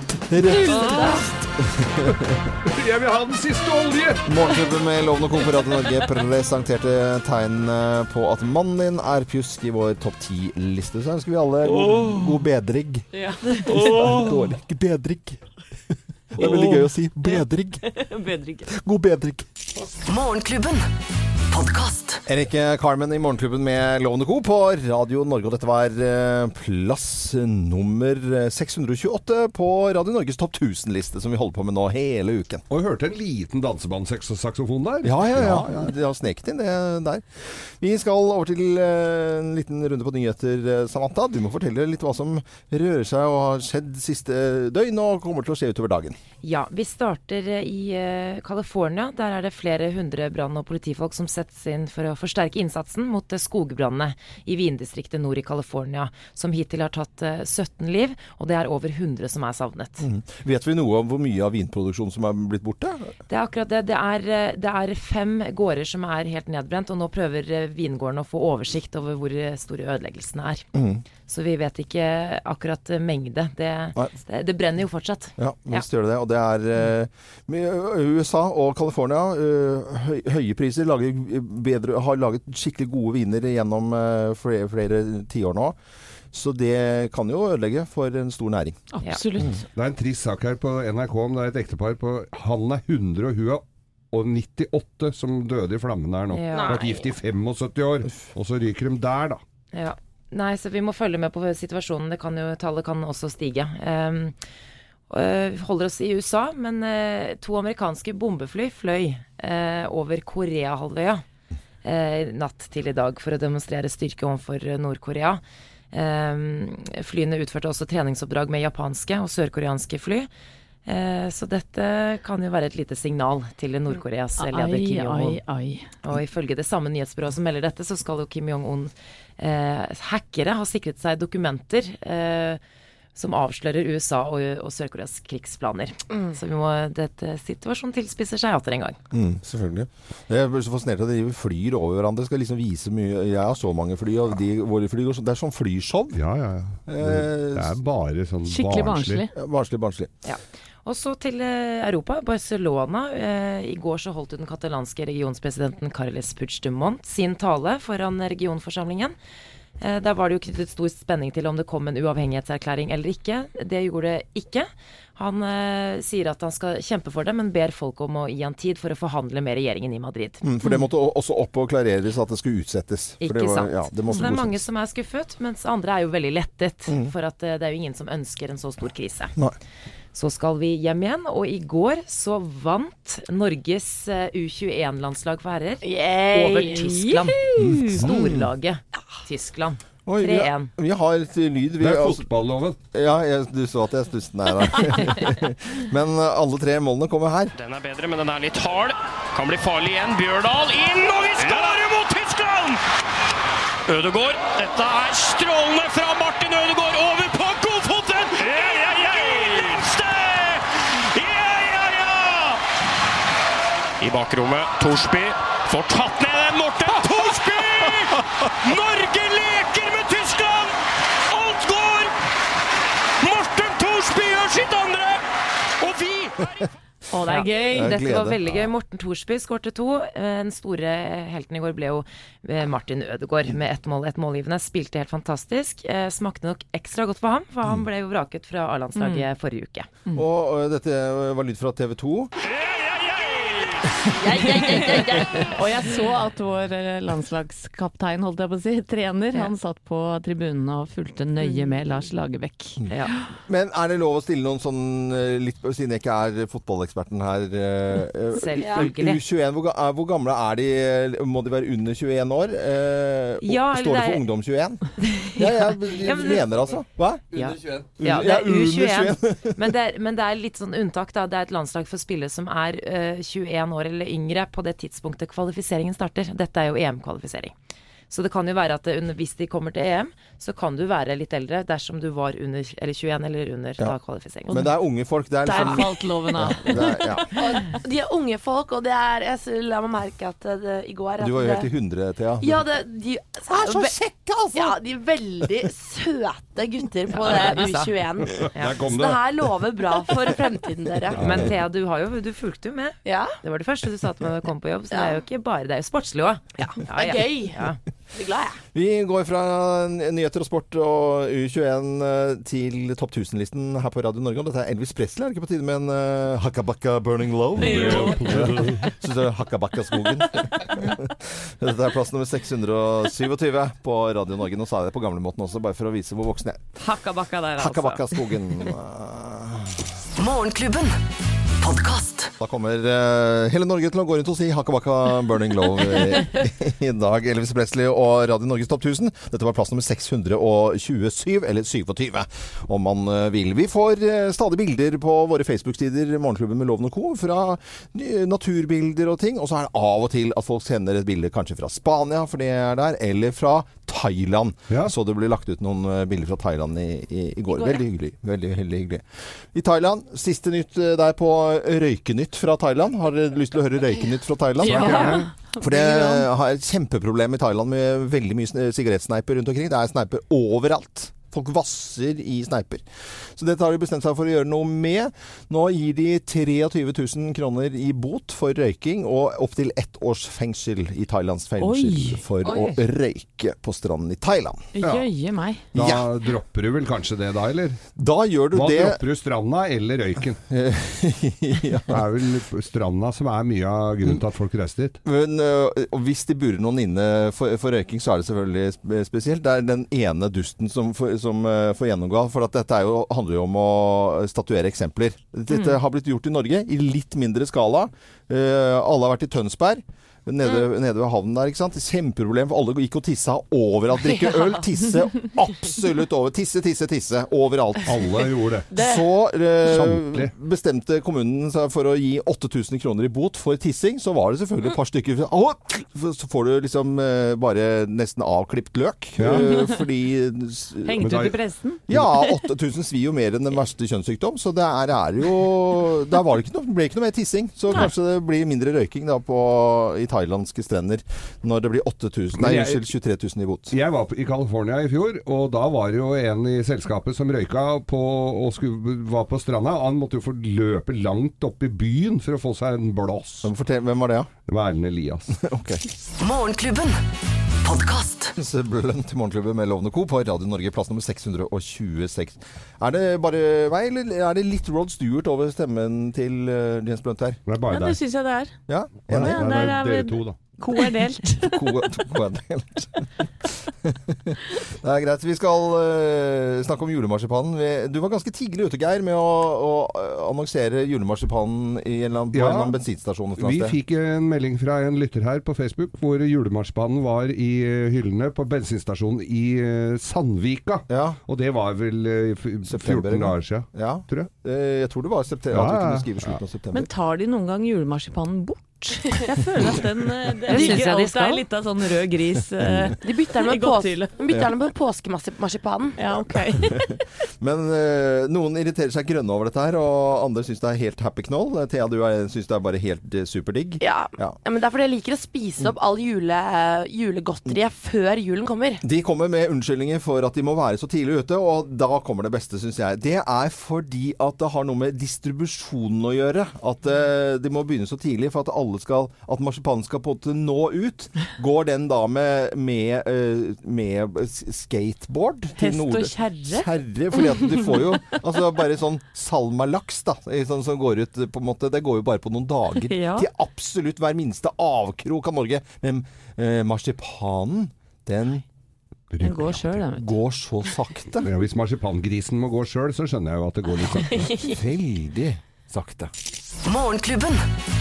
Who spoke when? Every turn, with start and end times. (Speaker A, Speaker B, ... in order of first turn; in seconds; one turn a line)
Speaker A: 0.3-0.8
Speaker B: 0.5-1.3
Speaker C: 0.6-1.3
Speaker A: 1.6-2.3
Speaker C: 2.6-4.3
Speaker A: 4.3-13.1
Speaker C: 11.7-12.4
Speaker C: 13.6-14.5
Speaker A: 13.7-15.4
Speaker A: 16.3-17.9
Speaker C: 16.4-16.9
Speaker D: 17.9-18.7
Speaker A: 18.7-19.5
Speaker E: 20.1-20.9
Speaker E: 21.5-22.2
Speaker A: 22.3-32.6
Speaker C: 32.7-35.9
Speaker A: 35.0-37.2
Speaker A: 37.8-46.2
Speaker F: 46.4-60.0
Speaker A: 60.0-63.1
Speaker F: 63.3-70.7
Speaker A: 70.7-71.0
Speaker F: 71.3-75.9
Speaker A: 75.4-85.8
Speaker A: 86.3-88.8
Speaker D: 88.9-89.6
Speaker C: 89.7-99.4
Speaker F: 96.3-96.9
Speaker B: 96.5-97.1
Speaker F: 99.7-104.4
Speaker F: 105.1-111.2
Speaker F: 111.8-115.4
Speaker F: 115.9-120.3
Speaker F: 120.9-125.4
Speaker D: 124.4-125.9
Speaker F: 126.0-132.6
Speaker F: 133.2-139.0
Speaker A: 139.1-146.2
Speaker C: 146.1-149.3
Speaker A: 146.9-147.8
Speaker D: 148.4-149.3
Speaker A: 149.3-150.1
Speaker F: 150.2-159.2
Speaker F: 159.8-170.4
Speaker A: 170.4-174.6
Speaker F: 173.2-179.4
Speaker F: 180.1-190.7
Speaker B: 185.8-186.9
Speaker D: 186.8-188.1
Speaker A: 187.6-188.5
Speaker A: 190.1-192.3
Speaker C: 191.8-192.8
Speaker A: 192.9-197.5
Speaker G: 197.5-202.8
Speaker G: 203.9-212.6
Speaker G: 214.0-220.8
Speaker G: 221.3-222.1
Speaker G: 223.2-225.2
Speaker G: 225.8-226.7
Speaker D: 227.1-228.0
Speaker F: 227.2-239.9
Speaker A: 227.7-228.6
Speaker D: 238.9-239.3
Speaker A: 240.1-242.3
Speaker G: 242.4-243.9
Speaker B: 244.1-245.6
Speaker A: 244.6-244.9
Speaker D: 245.4-252.8
Speaker A: 253.5-264.8
Speaker F: 258.3-259.2
Speaker F: 263.4-264.2
Speaker F: 265.2-266.7
Speaker A: 265.4-267.3
Speaker F: 267.3-277.5
Speaker A: 268.0-269.6
Speaker F: 278.1-284.6
Speaker D: 284.5-284.7
Speaker A: 284.5-287.3
Speaker D: 285.4-287.2
Speaker B: 287.3-291.7
Speaker A: 291.2-292.6
Speaker B: 292.4-294.0
Speaker A: 293.5-294.8
Speaker B: 294.5-301.2
Speaker F: 297.3-297.9
Speaker C: 298.4-299.4
Speaker C: 301.2-301.5
Speaker F: 301.2-307.8
Speaker B: 303.1-303.4
Speaker B: 304.9-305.2
Speaker B: 306.6-307.6
Speaker B: 308.1-308.6
Speaker A: 308.7-326.6
Speaker C: 317.6-318.9
Speaker D: 317.7-318.2
Speaker D: 326.8-328.3
Speaker A: 327.6-329.8
Speaker E: 330.2-331.0
Speaker E: 331.6-332.3
Speaker A: 332.4-359.0
Speaker B: 357.5-357.8
Speaker A: 359.5-372.8
Speaker D: 364.6-366.3
Speaker C: 364.6-365.3
Speaker A: 373.4-384.7
Speaker D: 381.6-382.2
Speaker D: 384.8-385.6
Speaker C: 384.8-385.1
Speaker A: 385.7-386.1
Speaker C: 385.7-387.8
Speaker A: 388.0-389.0
Speaker C: 388.5-390.4
Speaker A: 390.5-392.0
Speaker C: 391.9-395.0
Speaker A: 395.1-418.0
Speaker C: 417.9-418.7
Speaker A: 418.7-431.1
Speaker C: 419.6-420.3
Speaker C: 429.2-429.6
Speaker D: 429.3-429.6
Speaker D: 430.8-431.8
Speaker C: 431.0-431.4
Speaker A: 431.9-443.7
Speaker C: 442.4-442.9
Speaker C: 443.7-453.5
Speaker A: 453.4-454.3
Speaker C: 454.5-455.4
Speaker A: 455.4-455.8
Speaker E: 456.2-457.0
Speaker E: 457.6-458.3
Speaker A: 458.4-467.4
Speaker C: 467.5-468.0
Speaker D: 467.7-468.6
Speaker A: 468.7-469.5
Speaker C: 469.1-470.4
Speaker D: 469.1-471.6
Speaker A: 471.4-473.1
Speaker A: 473.9-483.8
Speaker C: 482.3-482.8
Speaker C: 483.4-494.3
Speaker A: 490.9-491.2
Speaker A: 492.6-496.9
Speaker C: 495.5-496.4
Speaker D: 496.7-504.2
Speaker F: 500.5-501.5
Speaker B: 500.5-501.0
Speaker B: 502.9-506.0
Speaker D: 506.0-506.9
Speaker A: 506.6-514.4
Speaker B: 513.8-518.8
Speaker A: 518.8-548.4
Speaker D: 535.6-536.7
Speaker D: 542.8-543.3
Speaker C: 549.1-549.8
Speaker D: 549.2-550.1
Speaker A: 549.9-551.3
Speaker C: 551.2-554.4
Speaker B: 554.2-554.5
Speaker A: 554.4-556.1
Speaker E: 556.6-557.5